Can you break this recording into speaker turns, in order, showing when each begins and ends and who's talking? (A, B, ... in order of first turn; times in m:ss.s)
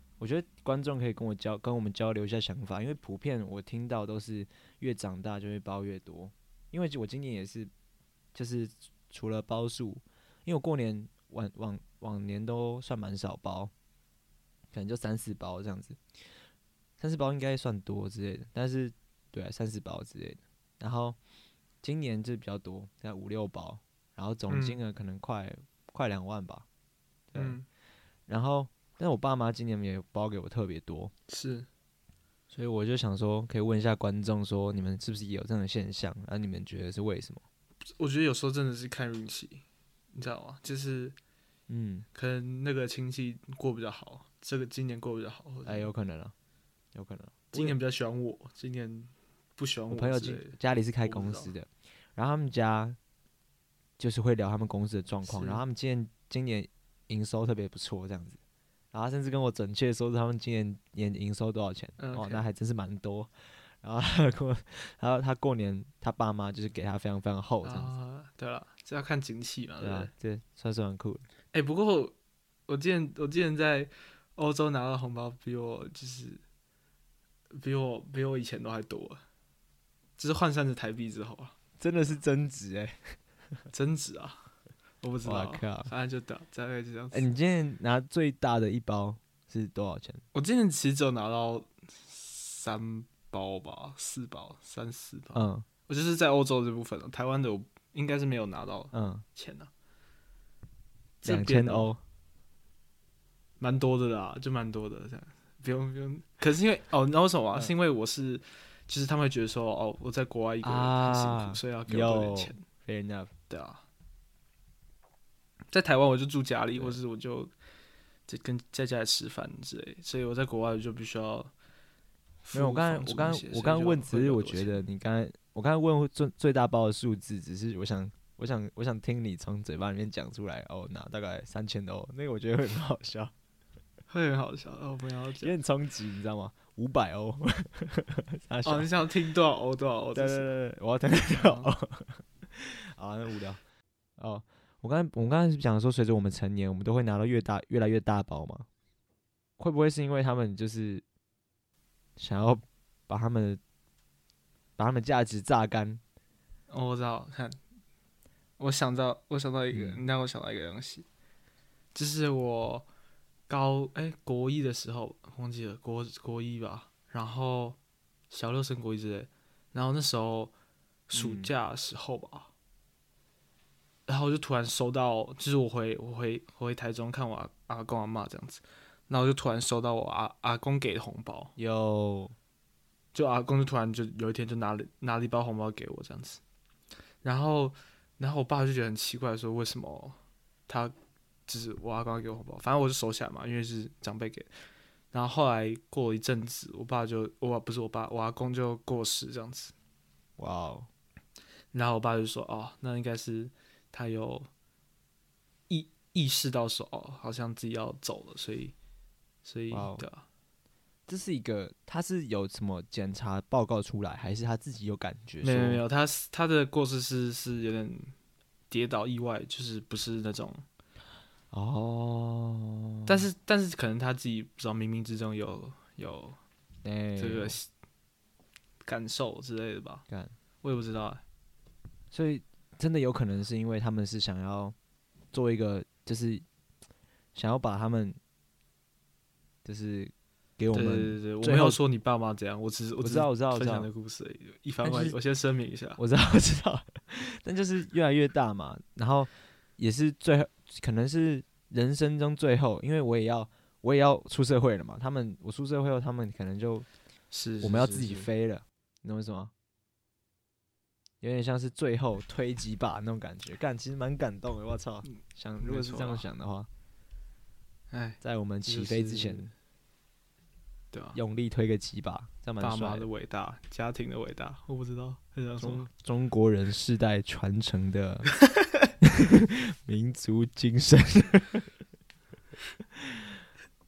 0:00.2-0:07.7 A
0:08.3-0:13.7 A
0:14.7-0:16.0 A
0:17.0-0:21.2 A
0:21.8-0:26.7 A
0:24.5-0:24.8 B
0:27.3-0:27.6 A
0:27.4-0:27.7 B
0:28.3-0:31.1 A
0:31.3-0:31.7 B
0:32.5-0:37.4 A
0:38.0-0:41.2 B
0:41.7-0:42.1 A
0:42.1-0:45.9 B
0:45.6-0:46.3 A
0:46.9-0:47.8 A
0:47.5-0:51.5 B
0:49.9-0:53.0 A
0:54.0-0:58.4 A
0:55.2-0:55.6 B
0:58.9-1:07.9 A
1:02.0-1:02.5 B
1:07.6-1:10.1 B
1:09.8-1:11.2 A
1:11.5-1:12.2 B
1:12.7-1:16.4 B
1:17.5-1:19.2 B
1:20.2-1:21.6 B
1:21.8-1:23.2 A
1:23.7-1:24.4 B
1:25.0-1:27.3 B
1:25.2-1:25.9 A
1:27.1-1:30.2 A
1:30.3-1:39.7 B
1:35.4-1:35.7 A
1:38.9-1:39.2 A
1:41.2-1:41.9 B
1:41.2-1:42.0 A
1:43.6-1:52.6 B
1:50.6-1:53.3 A
1:53.5-1:53.8 B
1:55.7-1:57.5 B
1:58.3-2:01.5 B
2:02.4-2:04.8 B
2:02.5-2:13.3 A
2:14.1-2:15.5 B
2:15.4-2:18.9 A
2:18.6-2:20.5 B
2:20.2-2:23.6 A
2:21.3-2:21.7 B
2:24.2-2:28.7 A
2:29.6-2:31.0 A
2:32.2-2:33.6 A
2:34.8-2:36.0 A
2:36.7-2:37.6 B
2:38.6-2:41.1 B
2:39.7-2:40.0 A
2:41.9-2:42.9 B
2:43.5-2:47.8 B
2:48.3-2:50.5 B
2:51.1-2:52.5 B
2:51.1-2:51.5 A
2:54.1-3:01.5 B
3:01.6-3:02.3 A
3:03.1-3:06.4 B
3:07.2-3:10.2 B
3:10.7-3:10.9 B
3:11.5-3:14.5 B
3:15.1-3:19.7 B
3:20.4-3:20.9 A
3:21.7-3:24.5 B
3:25.7-3:28.8 B
3:29.4-3:30.2 B
3:29.7-3:30.0 A
3:31.1-3:35.8 A
3:35.4-3:38.1 B
3:38.7-3:40.6 B
3:41.5-3:43.3 A
3:43.1-3:46.4 B
3:46.8-3:47.6 A
3:47.2-3:47.7 B
3:48.8-3:50.0 B
3:50.6-3:51.2 B
3:52.1-3:54.8 A
3:55.3-3:56.4 A
3:57.4-3:58.2 A
3:59.6-4:01.8 A
4:00.7-4:06.0 B
4:03.0-4:03.9 A
4:04.8-4:05.2 A
4:06.0-4:16.9 A
4:17.3-4:18.3 B
4:17.6-4:19.5 A
4:21.2-4:26.7 A
4:25.6-4:26.2 B
4:27.9-4:29.5 B
4:28.2-4:29.5 A
4:30.9-4:31.2 B
4:31.1-4:33.1 A
4:32.6-4:35.9 B
4:35.6-4:38.3 A
4:39.0-4:41.7 A
4:42.9-4:43.3 A